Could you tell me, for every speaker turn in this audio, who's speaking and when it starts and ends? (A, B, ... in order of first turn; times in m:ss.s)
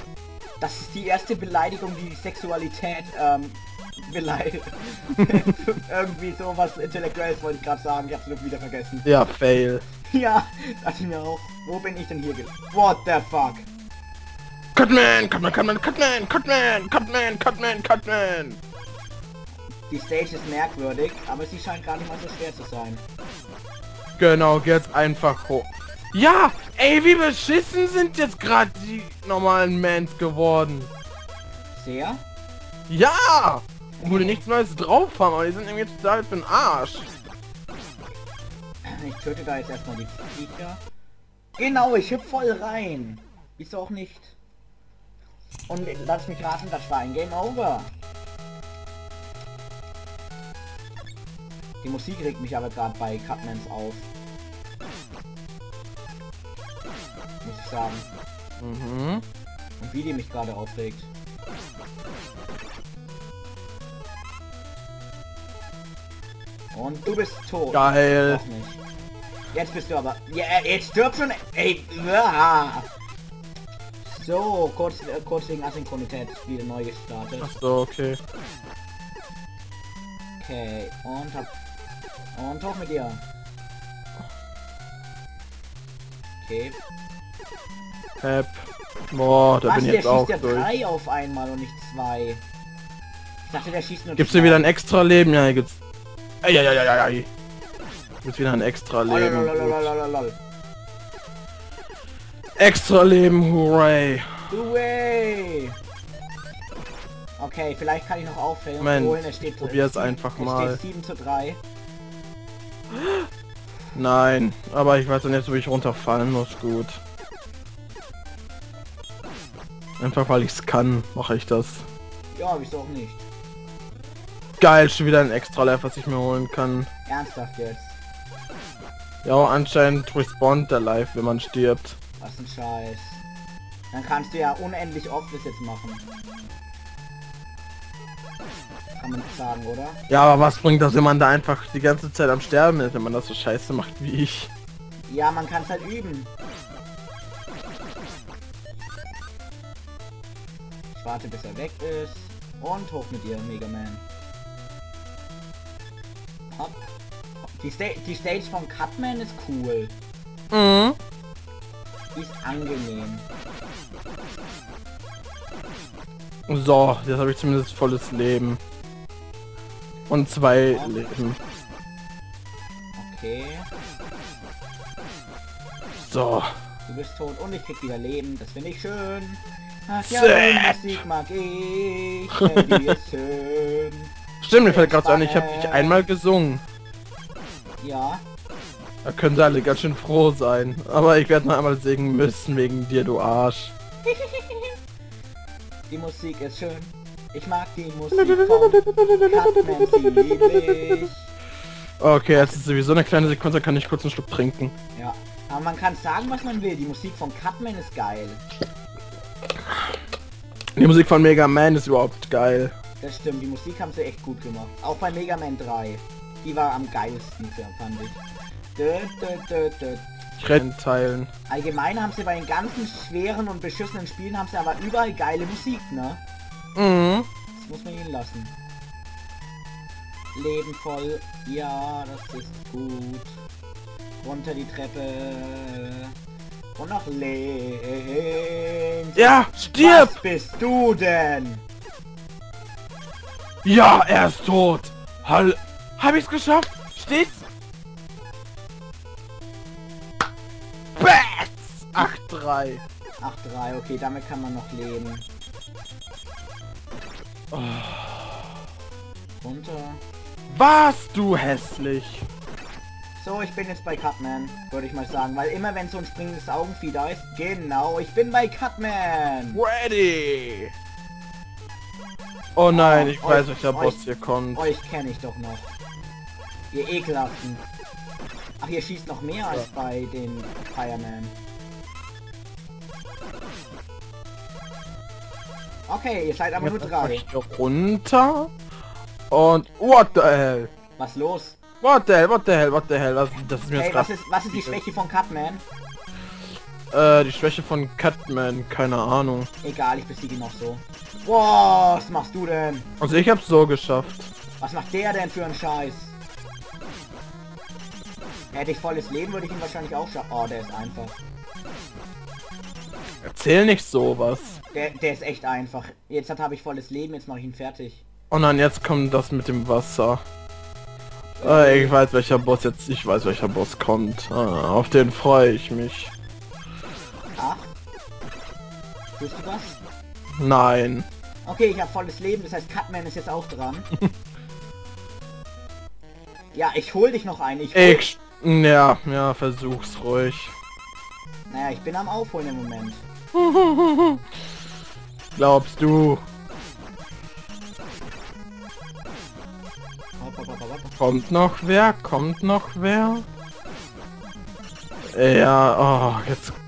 0:00.6-0:09.1 A
0:09.0-0:09.8 B
0:10.0-0:13.7 A
0:14.8-0:18.6 B
0:19.9-0:23.0 A
0:24.2-0:30.9 B
0:31.7-0:32.2 A
0:32.9-0:37.1 B
0:34.0-0:34.4 A
0:38.8-0:40.8 A
0:41.6-0:44.4 A
0:45.7-0:47.9 A
0:51.8-0:54.1 A
0:57.4-0:58.1 A
0:58.6-0:59.2 B
0:59.8-1:01.1 A
1:06.7-1:08.8 A
1:07.7-1:08.4 B
1:09.5-1:12.9 A
1:14.0-1:17.5 A
1:17.4-1:18.2 B
1:20.4-1:21.5 A
1:22.4-1:23.2 A
1:26.4-1:26.8 A
1:28.2-1:30.7 B
1:29.6-1:32.4 A
1:33.4-1:34.7 A
1:34.2-1:35.8 B
1:36.4-1:37.3 B
1:38.2-1:39.9 B
1:39.1-1:40.4 A
1:42.6-1:44.5 B
1:44.5-1:45.8 A
1:47.4-1:51.6 A
1:48.8-1:50.8 B
1:52.9-1:53.3 B
1:53.9-1:57.0 B
2:00.0-2:01.9 B
2:02.3-2:03.3 A
2:04.6-2:06.9 B
2:07.1-2:08.0 A
2:09.2-2:12.0 B
2:12.2-2:13.2 A
2:13.9-2:16.1 A
2:19.0-2:20.0 A
2:20.1-2:24.5 B
2:25.1-2:26.3 A
2:30.9-2:34.0 A
2:36.5-2:36.9 A
2:37.6-2:40.0 A
2:40.5-2:41.0 B
2:42.1-2:43.3 A
2:46.5-2:48.6 B
2:50.1-2:51.4 B
2:50.7-2:51.0 A
2:53.0-2:53.7 A
2:56.0-2:56.5 B
2:56.9-3:04.1 A
3:00.0-3:01.0 B
3:02.4-3:02.8 B
3:04.4-3:06.6 B
3:04.6-3:06.1 A
3:07.8-3:08.2 A
3:09.0-3:13.7 B
3:14.1-3:14.8 A
3:15.9-3:21.3 A
3:18.1-3:21.1 B
3:22.0-3:24.7 B
3:25.0-3:28.4 A
3:30.8-3:32.7 B
3:33.0-3:38.2 A
3:38.8-3:40.0 A
3:40.4-3:41.3 B
3:41.5-3:46.2 A
3:46.8-3:47.3 B
3:47.6-3:48.6 A
3:50.4-3:53.4 A
3:54.2-3:56.1 A
3:56.8-4:01.6 A
3:59.2-4:00.2 B
4:03.6-4:07.4 B
4:11.0-4:12.8 B
4:13.2-4:15.3 A
4:17.5-4:18.5 B
4:19.4-4:20.0 A
4:20.5-4:22.3 B
4:23.2-4:29.6 A
4:29.6-4:30.7 B
4:32.6-4:34.7 B
4:32.7-4:34.0 A
4:34.5-4:35.7 A
4:36.7-4:37.6 A
4:38.6-4:41.4 A
4:45.9-4:47.2 A
4:46.6-4:48.5 B
4:49.3-4:50.7 B
4:51.0-4:51.6 A
4:51.8-4:54.8 B
4:53.7-4:55.6 A
4:56.9-4:59.5 B
4:59.6-5:02.9 A
5:03.0-5:04.3 B
5:04.6-5:06.2 A
5:08.5-5:11.2 A
5:13.2-5:14.6 B
5:14.7-5:18.1 A
5:18.3-5:20.2 B
5:21.4-5:22.0 A
5:21.4-5:26.1 B
5:27.4-5:27.8 A
5:29.2-5:29.8 A
5:30.4-5:31.1 B
5:31.4-5:33.9 A
5:36.5-5:38.0 A
5:37.8-5:40.5 B
5:41.5-5:43.0 A
5:43.3-5:44.2 B
5:45.4-5:46.2 B
5:50.2-5:51.0 A
5:51.0-5:53.3 B
5:55.1-5:56.6 B